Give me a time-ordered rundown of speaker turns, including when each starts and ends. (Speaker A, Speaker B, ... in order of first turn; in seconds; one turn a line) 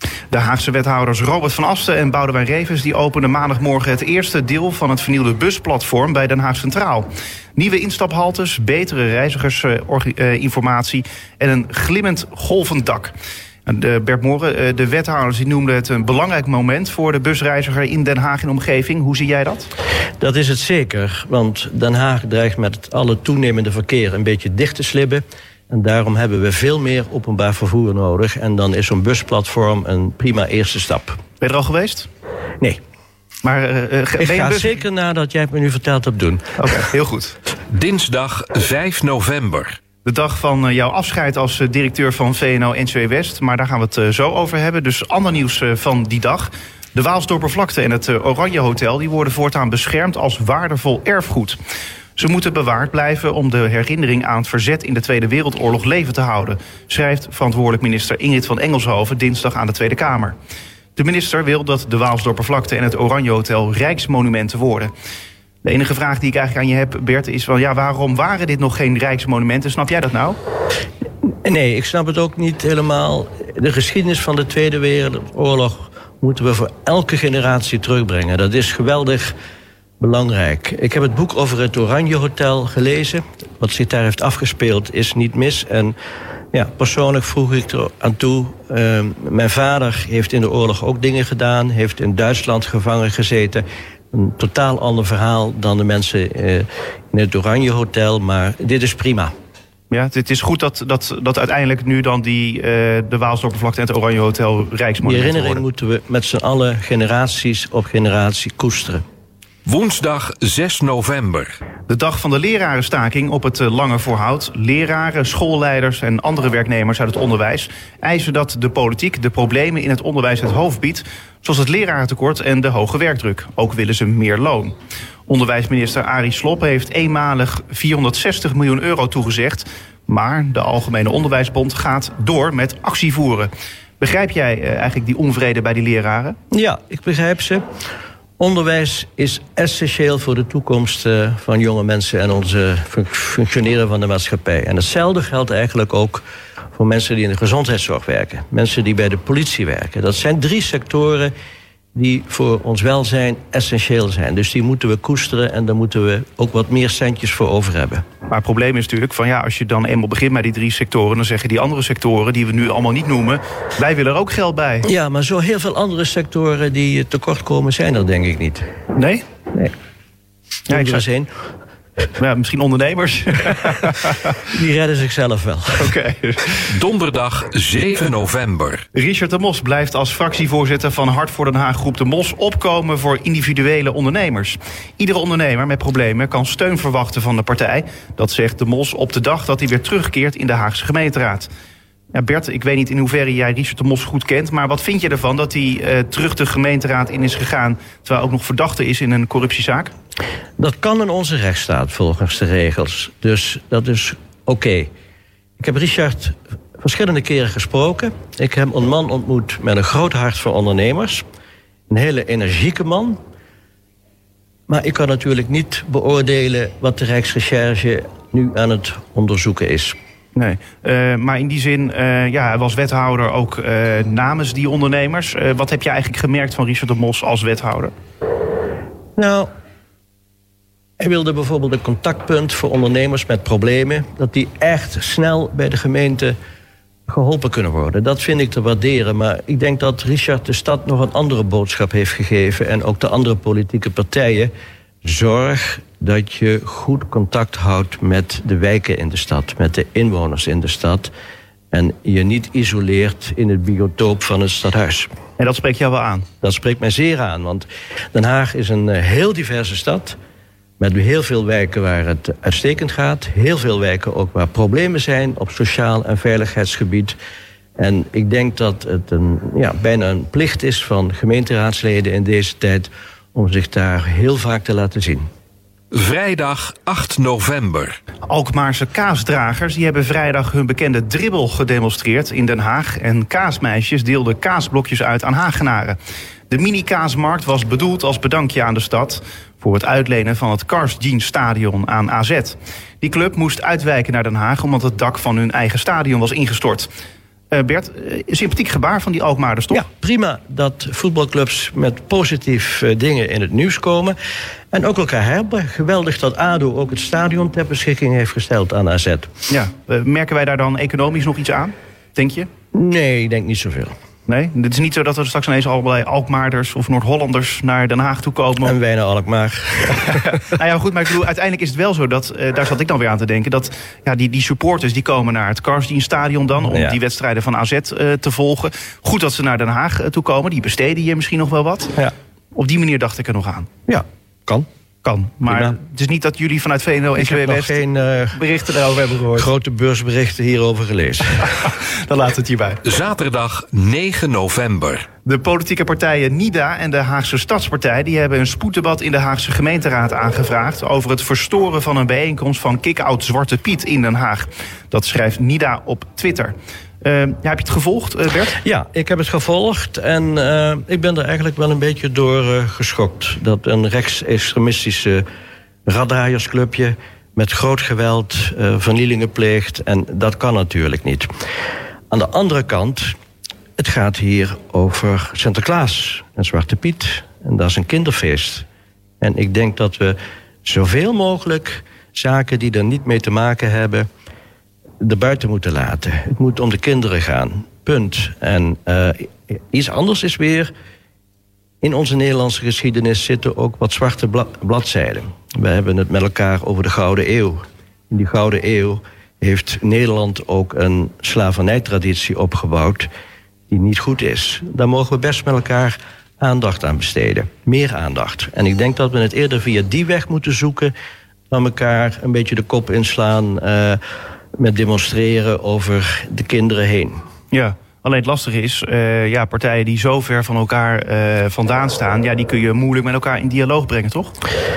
Speaker A: 0.3-13.1
Speaker A: 13.7-19.7
Speaker B: 20.2-31.2
Speaker A: 31.4-32.1
Speaker A: 33.4-34.8
Speaker B: 34.2-36.8
Speaker A: 36.6-37.4
Speaker C: 37.7-39.8
Speaker A: 40.0-51.6
Speaker A: 52.2-60.4
Speaker A: 61.0-64.9
Speaker A: 65.6-70.4
Speaker B: 71.4-79.3
Speaker B: 80.0-86.0
Speaker B: 86.5-99.3
Speaker A: 99.9-105.6
Speaker B: 105.0-109.0
Speaker C: 109.7-111.6
Speaker A: 111.9-124.7
Speaker A: 125.3-136.4
Speaker B: 136.5-137.6
Speaker B: 138.4-146.2
Speaker B: 146.8-151.3
Speaker B: 151.9-158.1
Speaker A: 158.3-164.9
Speaker B: 164.8-168.7
Speaker A: 168.9-169.2
Speaker B: 170.7-171.3
Speaker A: 170.7-171.0
Speaker A: 172.2-174.3
Speaker B: 174.4-176.0
Speaker A: 175.8-176.7
Speaker C: 176.7-178.8
Speaker A: 178.9-191.5
Speaker A: 192.1-199.9
Speaker B: 200.6-204.9
Speaker B: 205.6-211.2
Speaker B: 211.9-213.2
Speaker B: 214.7-220.0
Speaker A: 220.4-227.9
Speaker B: 229.2-229.5
Speaker B: 231.0-236.4
Speaker B: 237.1-244.5
Speaker B: 245.0-251.1
Speaker B: 251.7-255.1
Speaker A: 255.4-256.3
Speaker B: 256.4-260.2
Speaker B: 260.8-267.2
Speaker B: 267.8-275.3
Speaker C: 275.9-278.0
Speaker A: 278.3-286.0
Speaker A: 286.5-296.9
Speaker A: 297.5-299.8
Speaker B: 299.7-304.2
Speaker B: 304.7-309.3
Speaker A: 309.5-312.5
Speaker B: 312.7-313.9
Speaker A: 314.3-318.7
Speaker B: 318.6-320.4
Speaker A: 320.1-332.0
Speaker B: 326.7-327.0
Speaker A: 332.6-333.7
Speaker B: 333.9-334.7
Speaker A: 335.0-339.5
Speaker B: 335.4-335.8
Speaker B: 337.2-338.4
Speaker B: 339.3-341.7
Speaker A: 341.9-342.8
Speaker C: 342.9-345.1
Speaker A: 345.2-358.5
Speaker B: 358.5-365.2
Speaker B: 365.9-371.3
Speaker B: 372.1-373.1
Speaker B: 373.8-378.7
Speaker B: 379.2-384.1
Speaker B: 385.0-390.7
Speaker B: 391.8-403.1
Speaker B: 403.7-410.9
Speaker B: 411.5-414.0
Speaker B: 414.6-417.2
Speaker A: 417.5-424.3